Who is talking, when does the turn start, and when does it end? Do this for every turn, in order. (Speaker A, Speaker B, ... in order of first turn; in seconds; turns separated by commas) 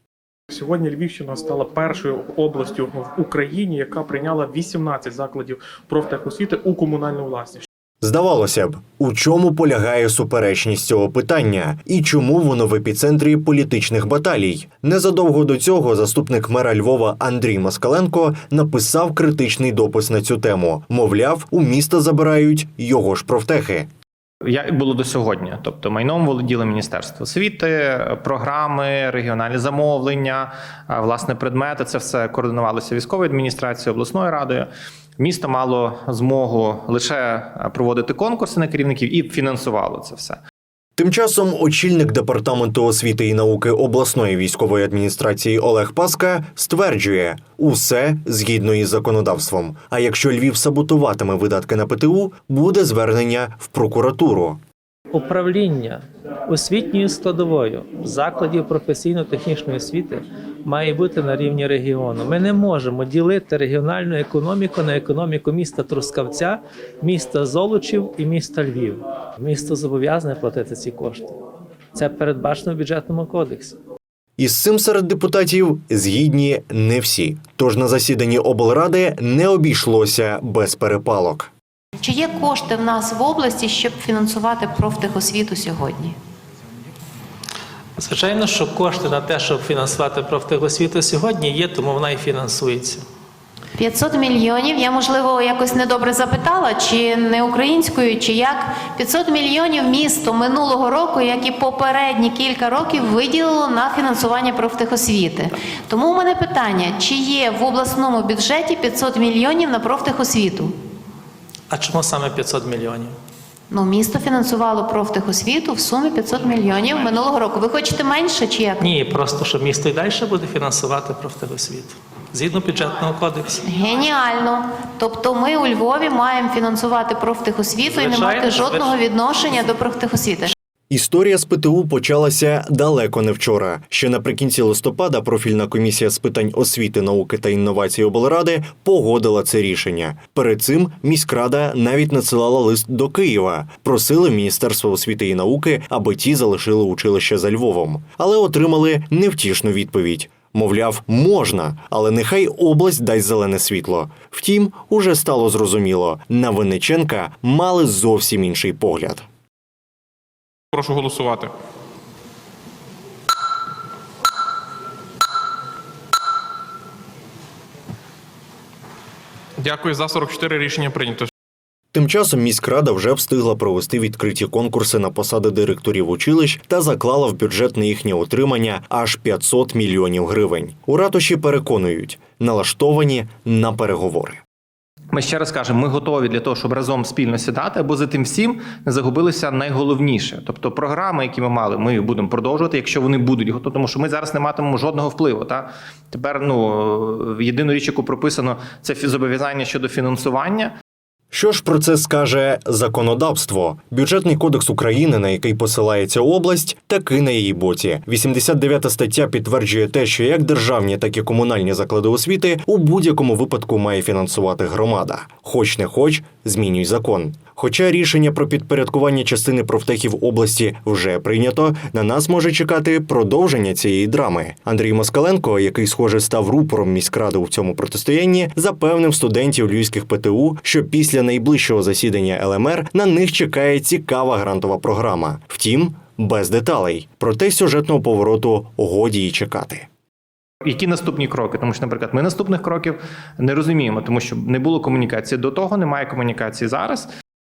Speaker A: 0.5-7.7, Speaker B: 8.0-23.9, Speaker C: 24.4-34.7, Speaker C: 35.2-40.4, Speaker B: 41.0-54.6, Speaker D: 55.1-71.3, Speaker D: 71.9-73.8, Speaker B: 74.4-81.5, Speaker E: 82.0-86.2, Speaker D: 88.0-93.0, Speaker E: 93.8-110.7, Speaker D: 111.7-113.1, Speaker E: 113.7-118.9, Speaker D: 118.8-123.6, Speaker E: 123.6-130.5, Speaker D: 127.8-129.0, Speaker B: 130.9-159.2, Speaker F: 160.7-161.5, Speaker F: 169.6-171.3, Speaker B: 171.9-184.4, Speaker C: 185.1-200.7, Speaker B: 201.3-239.9, Speaker C: 240.6-247.1